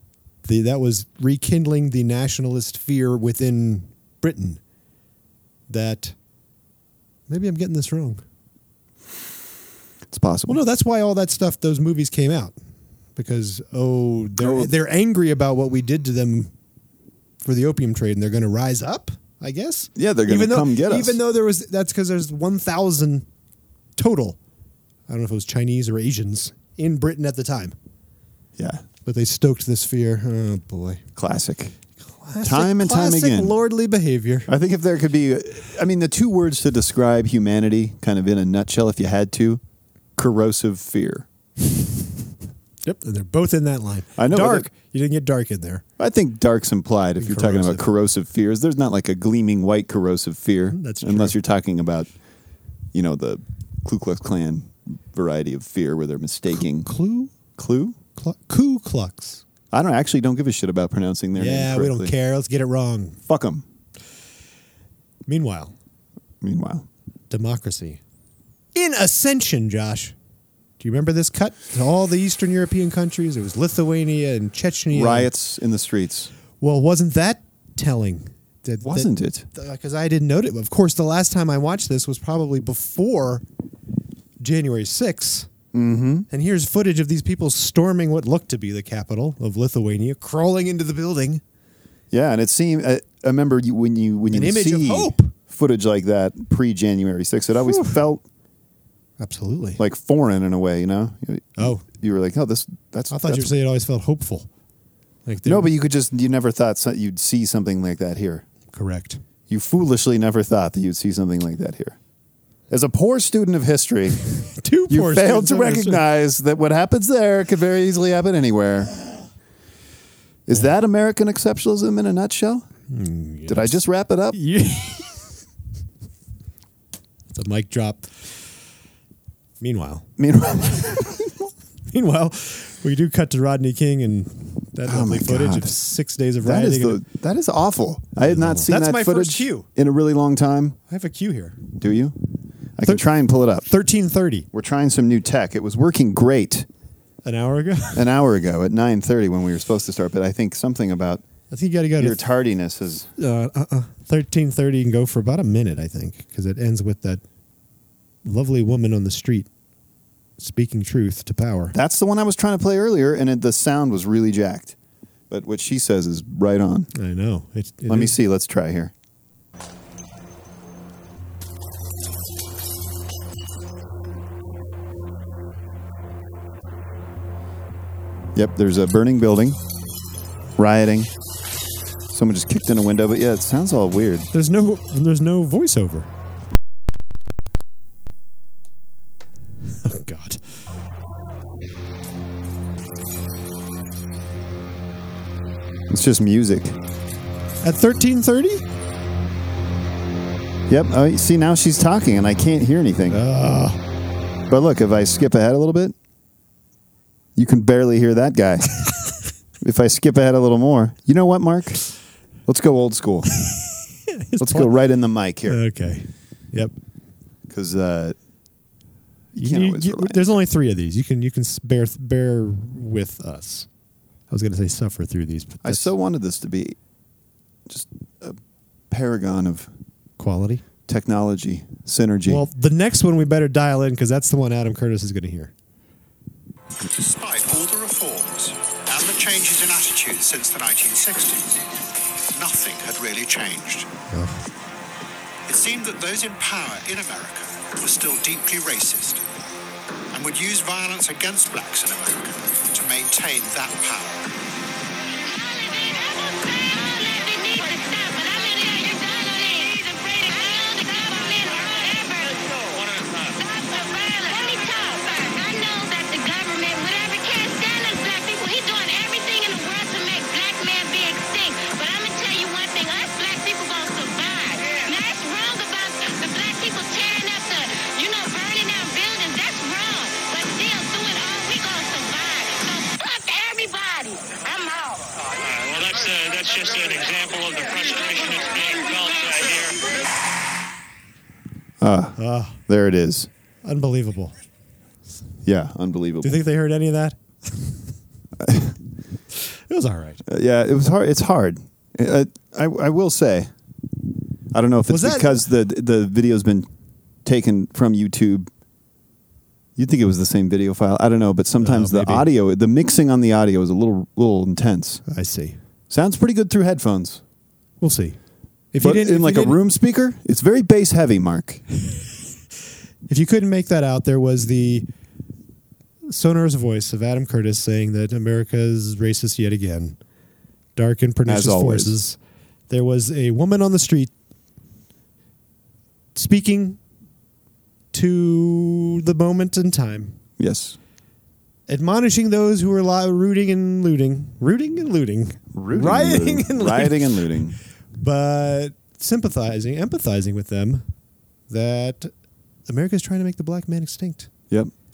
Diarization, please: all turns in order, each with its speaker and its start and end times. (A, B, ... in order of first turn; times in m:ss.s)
0:00.4-0:04.6 A
0:05.7-0:06.2 A
0:07.3-0:08.2 A
0:10.1-0:10.6 B
0:10.5-0:12.6 A
0:13.2-0:16.5 A
0:14.4-0:14.7 B
0:17.4-0:23.3 A
0:20.0-0:21.2 B
0:24.0-0:24.4 A
0:25.1-0:27.8 A
0:28.6-0:28.8 B
0:29.1-0:31.0 A
0:31.2-0:31.8 B
0:32.2-0:34.5 A
0:32.4-0:33.6 B
0:34.5-0:39.6 B
0:40.2-0:41.3 B
0:42.8-0:45.8 A
0:44.2-0:44.7 B
0:46.0-0:52.1 B
0:47.2-0:47.9 A
0:50.7-0:51.4 A
0:52.9-0:56.9 B
0:56.5-0:57.3 A
0:57.6-0:58.0 B
0:58.2-0:59.4 A
0:59.7-1:02.1 B
1:01.4-1:03.2 A
1:03.3-1:03.6 B
1:05.3-1:05.7 A
1:06.4-1:06.9 B
1:07.3-1:08.0 A
1:08.8-1:10.2 A
1:10.8-1:15.3 A
1:14.9-1:16.3 B
1:16.6-1:23.4 A
1:18.8-1:19.5 B
1:24.4-1:25.5 A
1:25.7-1:26.3 B
1:26.3-1:31.4 A
1:32.1-1:38.2 B
1:34.3-1:35.3 A
1:37.6-1:38.0 A
1:39.2-1:39.8 A
1:39.8-1:43.5 B
1:41.6-1:41.8 A
1:43.1-1:44.5 A
1:45.3-1:45.7 A
1:45.4-1:48.4 B
1:48.7-1:49.2 A
1:49.5-1:52.0 B
1:52.7-1:54.2 B
1:54.6-1:56.0 A
1:54.9-1:59.0 B
2:00.5-2:02.7 B
2:02.9-2:03.8 A
2:03.5-2:04.4 B
2:04.3-2:05.3 A
2:07.3-2:08.1 A
2:09.6-2:10.1 A
2:10.2-2:11.4 B
2:11.9-2:17.0 A
2:14.8-2:15.7 B
2:16.4-2:20.8 B
2:18.2-2:19.7 A
2:20.9-2:21.6 A
2:21.8-2:22.2 B
2:22.8-2:23.7 B
2:23.6-2:24.5 A
2:24.5-2:26.7 B
2:27.2-2:28.1 A
2:28.0-2:31.2 B
2:31.5-2:32.2 A
2:32.0-2:33.1 B
2:33.2-2:37.2 A
2:38.2-2:39.5 A
2:40.4-2:41.8 A
2:41.7-2:44.8 B
2:45.3-2:46.9 B
2:47.0-2:48.2 A
2:47.9-2:48.9 B
2:58.4-2:59.6 B
3:00.6-3:01.1 B
3:02.1-3:04.3 B
3:04.3-3:06.1 A
3:09.8-3:10.4 A
3:15.9-3:16.8 B
3:17.6-3:18.6 A
3:20.7-3:23.2 B
3:23.1-3:23.8 A
3:24.5-3:26.0 B
3:27.4-3:28.9 B
3:29.6-3:31.8 B
3:32.5-3:33.3 B
3:33.4-3:34.8 A
3:34.4-3:35.6 B
3:35.5-3:36.7 A
3:37.5-3:38.2 B
3:39.4-3:43.7 A
3:39.4-3:40.2 B
3:44.3-3:45.9 A
3:45.6-3:46.8 B
3:47.7-3:48.4 B
3:48.9-3:49.7 B
3:50.2-3:50.6 A
3:50.9-3:52.4 B
3:52.3-3:55.5 A
3:56.8-4:01.6 C
4:02.3-4:03.9 C
4:04.1-4:04.4 A
4:05.5-4:09.2 C
4:10.1-4:14.3 C
4:15.2-4:22.6 D
4:22.7-4:23.4 E
4:23.4-4:45.0 D
4:45.4-4:49.9 E
4:51.8-4:53.3 B
4:52.2-4:52.6 A
4:53.6-4:54.3 A
4:55.4-4:56.4 B
4:56.2-4:57.7 A
4:58.4-4:58.8 B
4:59.7-5:00.2 A
5:00.3-5:03.5 B
5:04.5-5:06.7 B
5:04.9-5:05.4 A
5:07.2-5:08.5 B
5:09.8-5:15.0 B
5:11.6-5:12.3 A
5:15.1-5:15.6 A
5:15.9-5:17.2 B
5:17.8-5:18.2 A
5:18.7-5:19.6 A
5:18.8-5:21.6 B
5:23.1-5:24.9 A
5:26.1-5:30.0 A
5:30.8-5:32.2 A
5:31.3-5:32.0 B
5:32.7-5:34.1 A
5:36.2-5:36.8 A
5:37.9-5:40.2 A
5:40.4-5:40.8 B
5:41.7-5:47.2 A
5:45.5-5:47.6 B
5:48.0-5:50.9 A
5:51.5-5:52.1 A
5:52.7-5:54.3 A